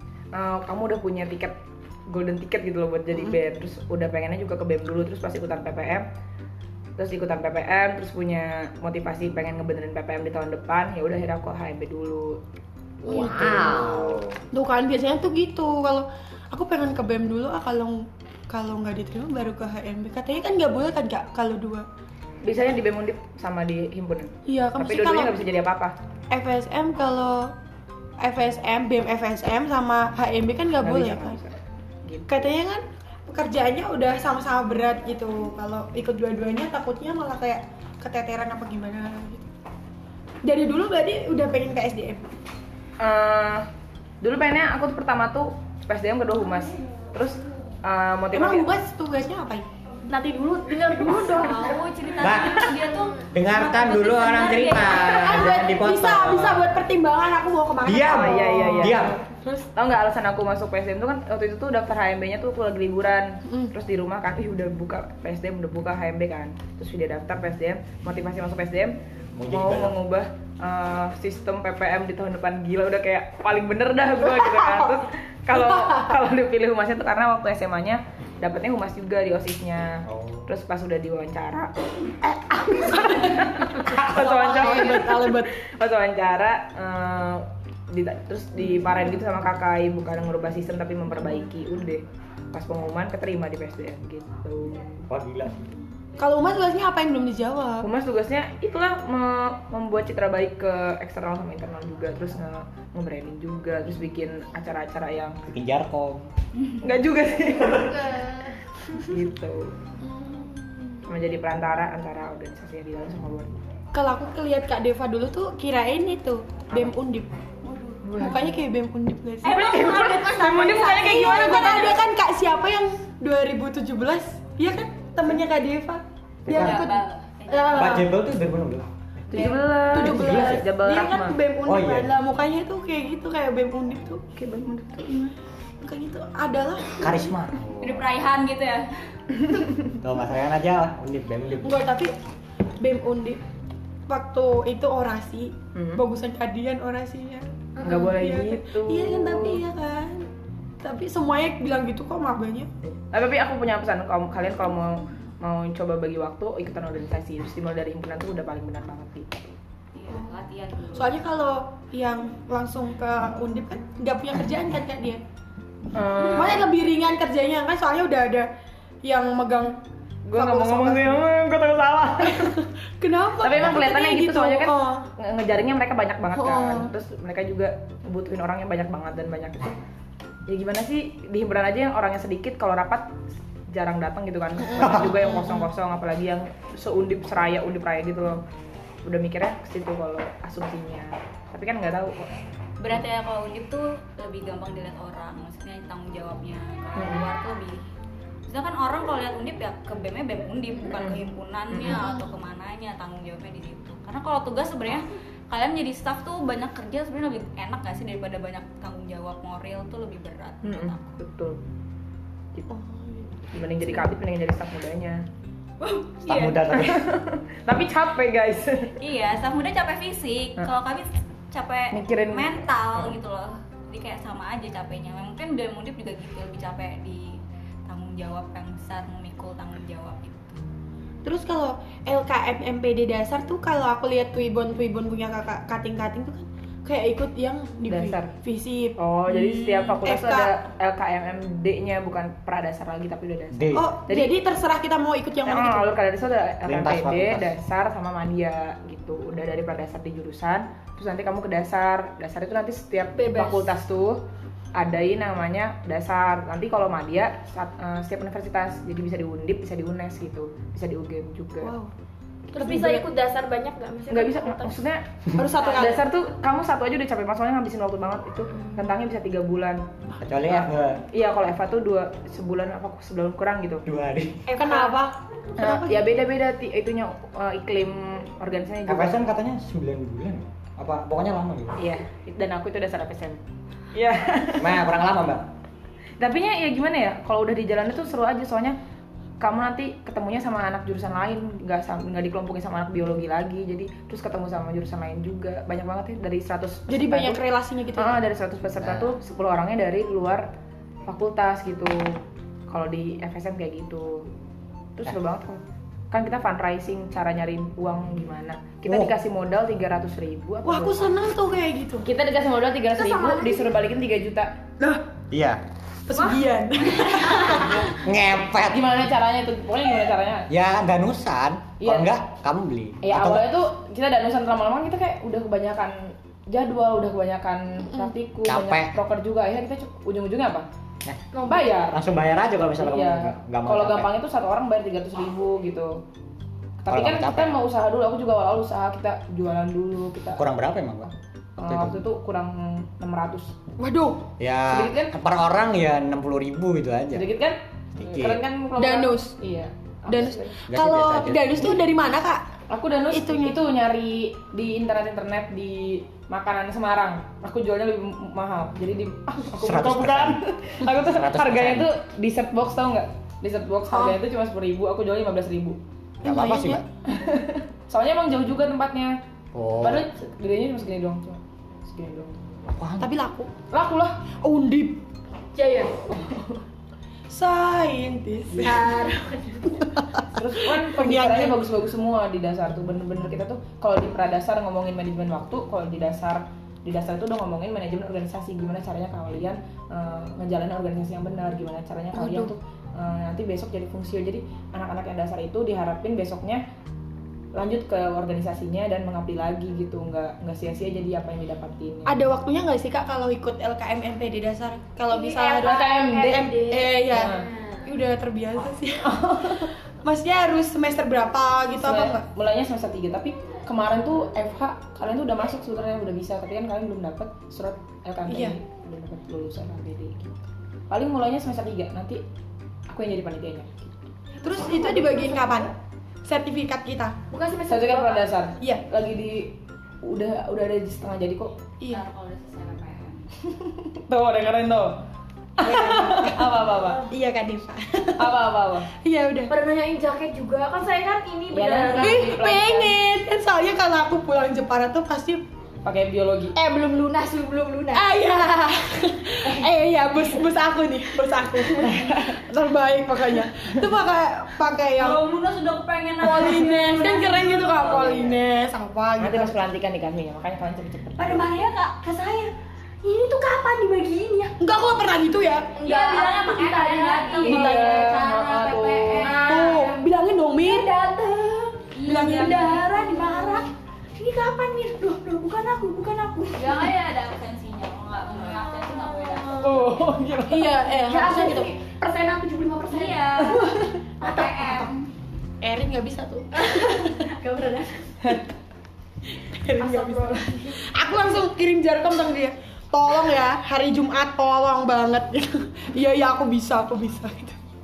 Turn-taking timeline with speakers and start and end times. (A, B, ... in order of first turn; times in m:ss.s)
0:00.3-0:01.6 A
0:02.1-0:06.0 A
0:07.0-0:12.4 A
0:13.0-0:14.4 B
0:13.0-0:21.9 C
0:22.4-0:25.9 A
0:24.5-0:25.4 C
0:26.3-0:27.5 C
0:28.2-0:31.4 C
0:30.8-0:32.5 A
0:32.3-0:39.4 C
0:40.4-0:42.2 C
0:43.0-0:43.6 A
0:44.2-0:48.7 A
0:48.3-0:49.6 C
0:50.1-0:51.8 D
0:51.0-0:55.5 E
0:52.2-0:56.6 B
0:55.0-0:59.7 C
0:57.8-0:59.1 B
0:57.9-0:59.1 A
0:59.8-1:09.0 A
1:03.5-1:03.7 C
1:09.4-1:09.9 B
1:09.5-1:21.7 A
1:14.2-1:16.2 C
1:20.0-1:20.5 B
1:22.2-1:32.0 A
1:22.8-1:25.5 C
1:32.5-1:35.0 A
1:35.1-1:35.7 B
1:36.2-1:37.9 C
1:37.8-1:45.4 A
1:45.5-1:46.3 B
1:46.8-1:47.9 A
1:47.8-1:48.3 C
1:47.9-1:48.5 D
1:49.0-1:49.7 A
1:50.0-1:51.0 C
1:51.1-1:53.5 A
1:53.9-1:57.3 C
1:57.6-1:58.4 E
1:58.0-1:58.5 A
1:58.2-2:08.0 C
1:59.4-2:02.0 A
1:59.4-2:01.0 E
1:59.6-2:01.7 D
2:06.4-2:06.9 B
2:06.6-2:08.0 E
2:07.5-2:07.8 D
2:07.7-2:10.6 B
2:09.3-2:11.4 A
2:09.3-2:14.2 C
2:11.6-2:12.1 B
2:14.3-2:15.3 A
2:15.8-2:17.3 C
2:17.0-2:18.1 B
2:17.8-2:18.9 E
2:20.0-2:21.8 B
2:21.6-2:22.1 C
2:22.8-2:23.4 C
2:24.1-2:30.3 C
2:25.7-2:26.0 A
2:27.8-2:29.6 A
2:30.8-2:32.7 C
2:33.1-2:39.3 A
2:39.9-2:41.2 E
2:40.9-2:45.2 C
2:45.9-2:46.7 A
2:46.3-2:48.5 C
2:49.0-2:49.8 C
2:50.2-2:52.6 A
2:50.3-2:51.2 C
2:52.2-2:55.0 C
2:53.4-2:59.8 A
2:56.4-2:56.9 C
3:00.5-3:03.1 A
3:03.7-3:08.4 A
3:04.6-3:05.7 C
3:04.8-3:05.1 B
3:09.0-3:12.3 A
3:12.8-3:17.8 E
3:17.0-3:17.2 A
3:18.5-3:31.2 E
3:20.9-3:21.2 A
3:21.7-3:22.0 A
3:30.6-3:31.6 A
3:32.7-3:33.5 C
3:33.5-3:35.2 A
3:35.8-3:36.6 D
3:36.2-3:37.1 B
3:36.7-3:38.9 A
3:39.0-3:50.6 E
3:41.9-3:43.1 A
3:51.2-3:59.0 C
3:57.9-3:58.3 A
3:59.0-4:04.3 A
3:59.4-4:00.0 E
4:00.0-4:00.5 C
4:03.5-4:03.9 B
4:03.7-4:06.0 C
4:05.4-4:14.2 A
4:06.6-4:07.5 B
4:13.1-4:13.7 D
4:14.7-4:21.7 A
4:21.6-4:21.9 C
4:22.5-4:23.0 C
4:22.5-4:24.8 D
4:24.1-4:25.0 A
4:25.3-4:26.0 C
4:25.5-4:29.8 A
4:30.2-4:31.0 B
4:30.4-4:33.8 A
4:33.8-4:34.4 B
4:34.5-4:36.1 C
4:34.6-4:35.0 A
4:35.6-4:39.2 A
4:38.9-4:41.8 B
4:41.8-4:43.4 A
4:43.9-4:44.8 A
4:44.6-4:45.4 B
4:46.2-4:48.8 A
4:49.4-4:57.4 A
4:56.9-4:58.2 C
4:58.0-5:00.5 A
4:58.8-4:59.1 B
5:01.0-5:04.3 A
5:05.0-5:11.1 A
5:10.6-5:12.1 C
5:12.0-5:14.5 A
5:13.0-5:13.6 C
5:14.8-5:15.0 C
5:15.3-5:15.6 B
5:16.0-5:17.9 C
5:17.9-5:18.8 B
5:18.7-5:20.5 A
5:20.5-5:23.5 B
5:21.8-5:22.1 A
5:23.0-5:30.6 A
5:28.4-5:28.9 B
5:31.3-5:31.7 D
5:31.5-5:32.0 A
5:31.9-5:34.1 B
5:32.8-5:36.0 A
5:36.8-5:40.4 A
5:36.9-5:37.6 B
5:40.4-5:41.1 B
5:41.6-5:43.5 A
5:41.7-5:42.0 B
5:43.8-5:44.3 C
5:44.4-5:47.2 B
5:44.7-5:45.1 A
5:47.1-5:50.6 A
5:48.0-5:48.4 B
5:48.8-5:49.4 C
5:50.1-5:52.4 C
5:50.7-5:51.8 B
5:52.7-6:05.8 A
5:53.1-5:53.6 C
5:59.5-6:00.4 B
6:01.0-6:01.9 B
6:03.9-6:04.2 C
6:06.2-6:06.8 C
6:06.2-6:06.8 B
6:07.1-6:09.2 A
6:09.5-6:10.0 B
6:09.8-6:12.4 A
6:12.7-6:13.1 B
6:13.0-6:13.5 C
6:13.7-6:14.2 A
6:14.4-6:15.0 C
6:15.5-6:16.0 D
6:16.1-6:16.6 A
6:17.3-6:18.9 C
6:18.6-6:19.8 D
6:20.3-6:36.6 A
6:20.7-6:21.6 C
6:32.1-6:32.5 C
6:37.5-6:42.2 A
6:42.0-6:47.3 C
6:45.1-6:47.8 D
6:45.6-6:46.5 A
6:47.1-6:47.5 A
6:47.8-6:52.3 C
6:49.0-6:49.7 A
6:51.8-7:00.4 A
6:58.3-6:58.6 C
7:00.9-7:02.2 A
7:02.9-7:03.9 A
7:04.3-7:05.6 D
7:04.4-7:05.7 C
7:06.2-7:07.2 C
7:07.3-7:08.3 D
7:07.7-7:11.5 A
7:11.9-7:13.3 E
7:13.8-7:15.0 A
7:15.6-7:17.0 A
7:15.6-7:16.4 C
7:16.7-7:17.1 D
7:17.1-7:18.4 C
7:18.2-7:18.9 A
7:19.0-7:19.5 C
7:19.5-7:22.3 D
7:21.5-7:23.0 A
7:21.9-7:25.4 C
7:25.8-7:26.5 A
7:26.5-7:28.1 D
7:27.9-7:35.2 C
7:31.9-7:32.2 A
7:34.9-7:38.4 E
7:36.2-7:39.6 C
7:39.2-7:41.5 A
7:41.2-7:42.5 E
7:41.4-7:42.1 D
7:43.0-7:44.5 D
7:44.6-7:45.7 C
7:45.8-7:48.2 D
7:45.8-7:49.7 E
7:47.4-7:49.5 A
7:49.2-7:50.1 D
7:49.4-7:50.9 C
7:50.6-7:56.9 D
7:51.9-7:53.7 E
7:52.0-7:52.8 C
7:56.5-8:00.1 E
7:59.6-8:00.8 A
8:00.5-8:01.7 C
8:01.0-8:03.7 D
8:02.9-8:05.0 E
8:04.2-8:04.9 D
8:04.2-8:04.8 C
8:05.6-8:07.1 C
8:06.6-8:08.1 D
8:09.3-8:17.6 C
8:09.8-8:10.8 D